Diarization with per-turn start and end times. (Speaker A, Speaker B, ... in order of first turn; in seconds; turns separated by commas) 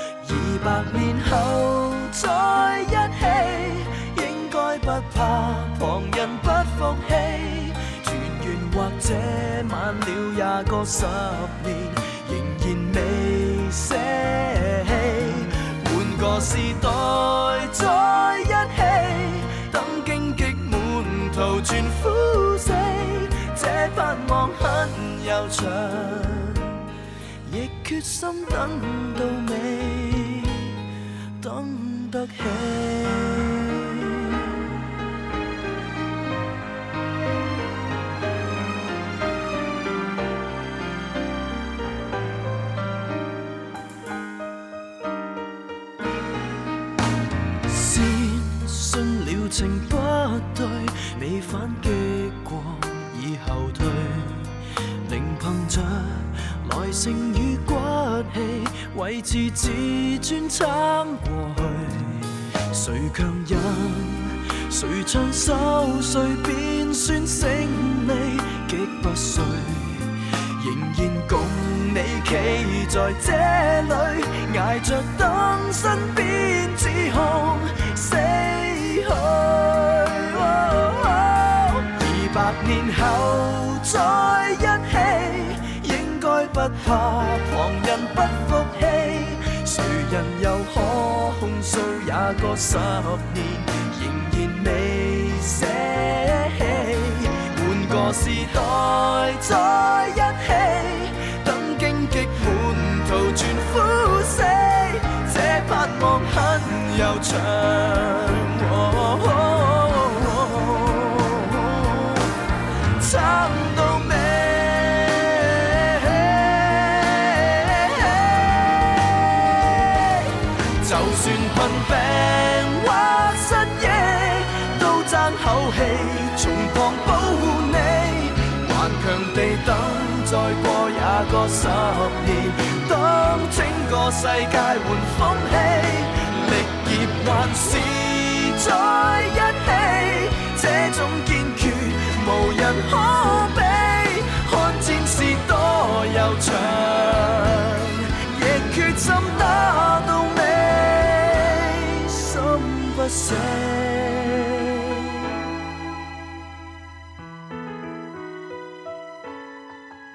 Speaker A: 0.2-26.8, Speaker A: 27.4-30.7, Speaker A: 31.4-34.3, Speaker A: 47.7-54.5, Speaker A: 55.0-112.3, Speaker A: 113.0-154.9